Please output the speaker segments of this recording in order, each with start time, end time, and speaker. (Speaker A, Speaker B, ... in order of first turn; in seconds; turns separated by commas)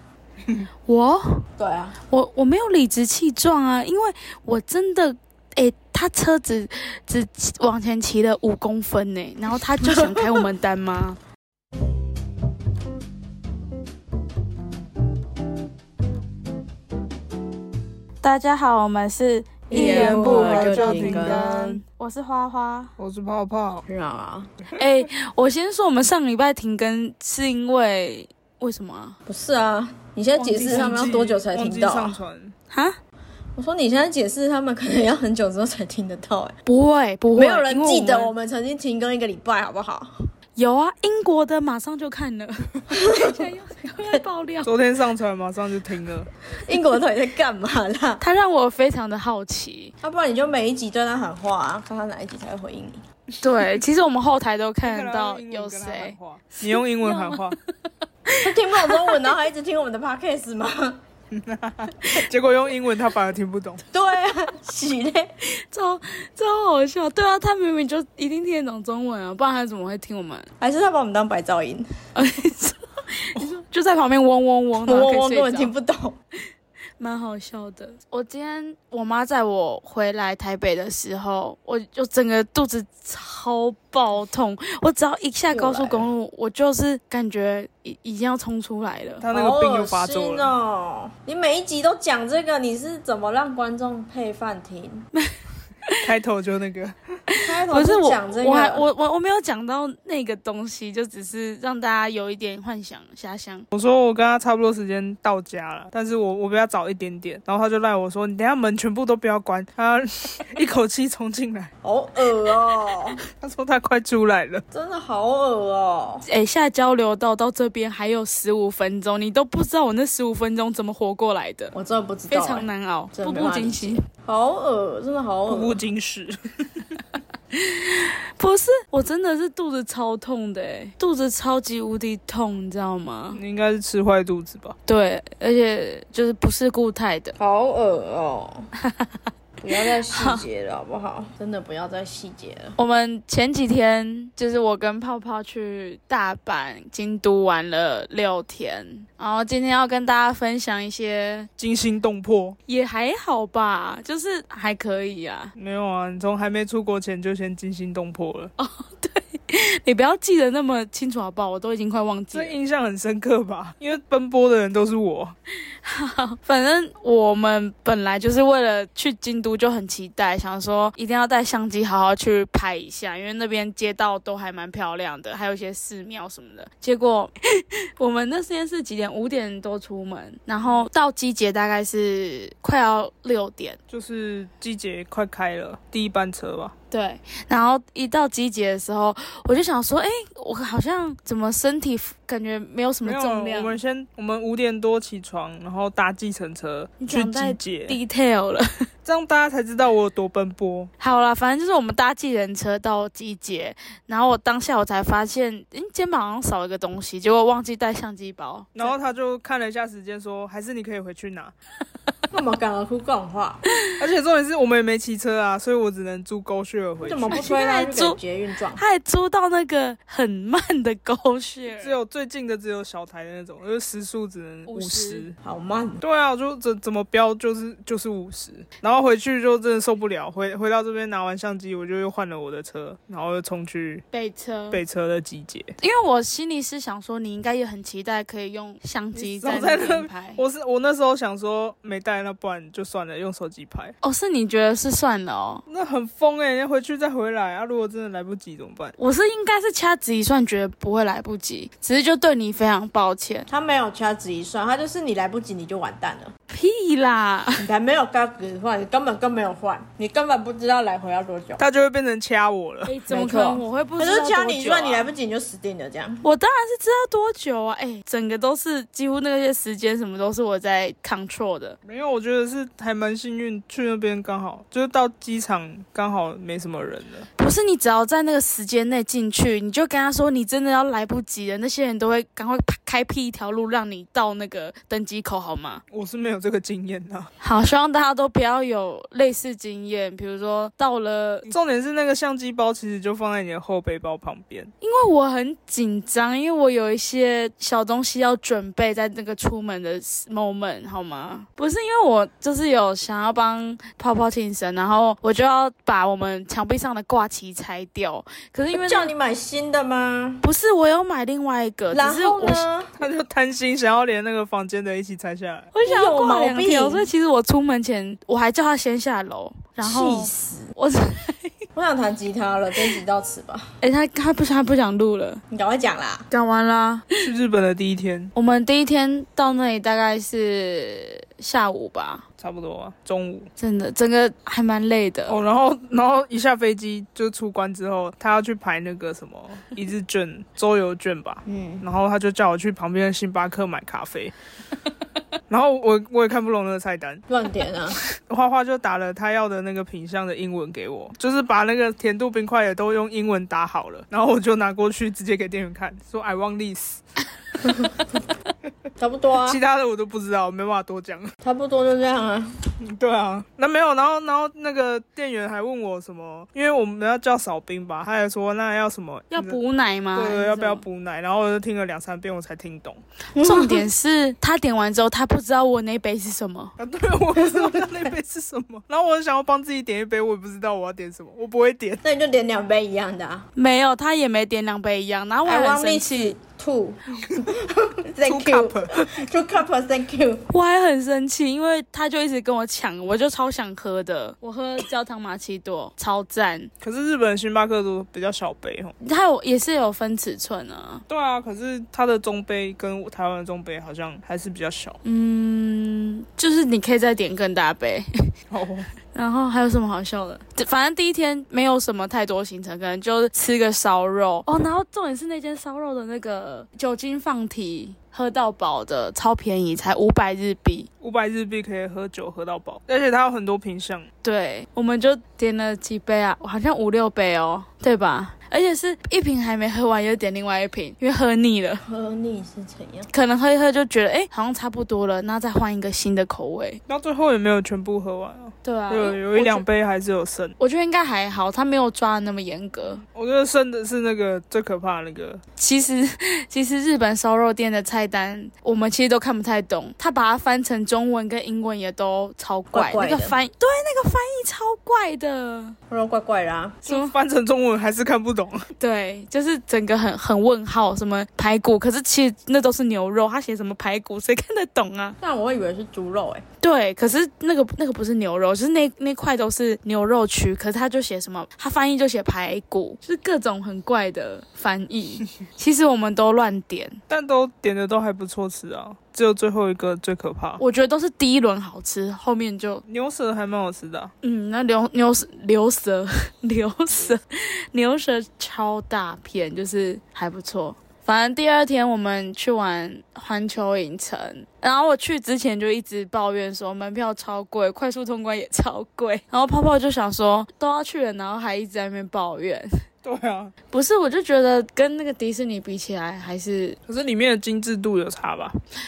Speaker A: 0.9-1.4, Speaker B: 1.6-2.0, Speaker A: 2.0-11.2, Speaker B: 9.8-10.5, Speaker A: 18.2-22.9, Speaker B: 19.7-21.5, Speaker C: 19.7-21.8, Speaker C: 23.0-23.9, Speaker B: 23.9-24.5, Speaker A: 24.8-29.2, Speaker B: 29.3-32.2, Speaker A: 30.4-31.1, Speaker C: 30.7-32.5, Speaker A: 32.7-33.0, Speaker B: 33.6-36.6, Speaker A: 36.7-38.3, Speaker B: 37.4-40.1, Speaker A: 40.6-44.7, Speaker B: 42.9-43.4, Speaker C: 44.6-46.3, Speaker B: 46.6-48.2, Speaker A: 48.2-49.9, Speaker B: 50.0-53.0, Speaker A: 53.4-57.5, Speaker C: 54.8-57.6, Speaker A: 58.3-59.2, Speaker B: 58.3-61.0, Speaker C: 61.3-63.8, Speaker B: 63.9-65.3, Speaker A: 65.7-70.5, Speaker B: 70.6-71.9, Speaker A: 72.2-75.7, Speaker B: 74.8-76.2, Speaker A: 77.0-89.2, Speaker B: 85.5-86.1, Speaker C: 89.2-90.5, Speaker B: 89.3-95.1, Speaker C: 96.0-97.0, Speaker A: 97.3-103.7, Speaker B: 97.4-98.8, Speaker C: 103.7-111.7, Speaker B: 111.8-113.2, Speaker C: 113.4-114.6, Speaker B: 114.7-116.3, Speaker A: 116.3-121.7, Speaker B: 121.7-125.8, Speaker A: 122.3-124.0, Speaker C: 125.5-127.0, Speaker A: 127.5-133.4, Speaker C: 133.3-134.8, Speaker A: 134.9-137.3, Speaker B: 137.4-138.7, Speaker A: 138.8-139.2, Speaker B: 139.6-142.8, Speaker A: 139.7-140.4, Speaker A: 142.8-151.5, Speaker C: 151.6-152.6, Speaker A: 152.7-155.5, Speaker C: 155.6-158.5, Speaker A: 158.6-162.6, Speaker C: 162.3-165.3, Speaker A: 165.8-183.8, Speaker C: 183.9-186.7, Speaker A: 186.9-193.8, Speaker C: 193.0-198.0, Speaker A: 197.0-198.8, Speaker C: 199.1-200.9, Speaker A: 201.0-209.0, Speaker C: 208.8-211.5, Speaker B: 212.3-213.6, Speaker C: 214.0-217.5, Speaker B: 217.0-218.8, Speaker A: 217.3-218.2, Speaker A: 218.7-222.0, Speaker C: 221.7-225.3, Speaker A: 224.7-225.3, Speaker B: 225.4-226.0, Speaker C: 226.0-234.0, Speaker A: 234.1-234.8, Speaker C: 234.7-235.7, Speaker A: 235.8-240.4, Speaker C: 239.2-243.9, Speaker A: 244.0-245.6, Speaker C: 245.7-248.9, Speaker A: 249.0-253.5, Speaker B: 253.5-256.3, Speaker A: 256.5-257.6, Speaker B: 257.6-261.6, Speaker C: 261.6-262.9, Speaker A: 262.9-265.1, Speaker B: 263.1-266.2, Speaker A: 266.2-271.8, Speaker C: 271.9-277.3, Speaker A: 277.4-285.8, Speaker C: 285.9-287.3, Speaker A: 287.4-291.5, Speaker C: 291.5-294.7, Speaker A: 294.8-309.1, Speaker B: 308.7-310.4, Speaker A: 310.4-312.7, Speaker B: 311.9-312.9, Speaker C: 313.0-315.7, Speaker A: 315.7-321.6, Speaker B: 315.8-317.1, Speaker B: 319.8-320.7, Speaker B: 321.8-323.7, Speaker A: 323.8-325.4, Speaker B: 325.5-326.3, Speaker A: 326.3-327.1, Speaker C: 327.2-328.3, Speaker A: 328.4-332.2, Speaker C: 332.4-333.5, Speaker A: 333.6-335.4, Speaker C: 335.3-344.3, Speaker B: 341.5-341.9, Speaker C: 345.5-347.2, Speaker B: 347.3-348.0, Speaker C: 348.3-357.0, Speaker B: 357.6-357.9, Speaker B: 359.0-359.6, Speaker C: 359.4-361.3, Speaker B: 361.4-362.5, Speaker C: 362.8-369.6, Speaker A: 369.3-370.8, Speaker C: 370.1-373.0, Speaker B: 373.4-373.9, Speaker A: 373.4-376.8, Speaker C: 376.8-382.0, Speaker B: 377.4-377.9, Speaker B: 382.0-383.5, Speaker A: 383.6-386.4, Speaker B: 385.5-390.5, Speaker C: 388.2-389.3, Speaker A: 390.5-396.7, Speaker C: 396.8-398.9, Speaker A: 399.0-401.0, Speaker C: 401.1-405.0, Speaker A: 405.0-408.1, Speaker C: 408.5-408.9, Speaker A: 409.1-420.9, Speaker C: 421.0-424.1, Speaker A: 424.2-431.8, Speaker B: 431.9-433.1, Speaker A: 433.1-436.8, Speaker C: 436.9-440.6, Speaker A: 438.6-439.6, Speaker A: 440.6-443.0, Speaker C: 443.0-445.4, Speaker A: 445.6-455.8, Speaker B: 452.7-453.4, Speaker B: 455.9-456.8, Speaker C: 456.9-458.7, Speaker A: 456.9-457.1, Speaker A: 458.8-465.2, Speaker B: 465.2-466.4, Speaker A: 466.6-477.0, Speaker C: 477.1-480.6, Speaker A: 480.6-482.8, Speaker C: 482.9-484.1, Speaker A: 484.2-502.7, Speaker C: 503.0-503.5, Speaker A: 503.7-506.8, Speaker C: 506.9-508.6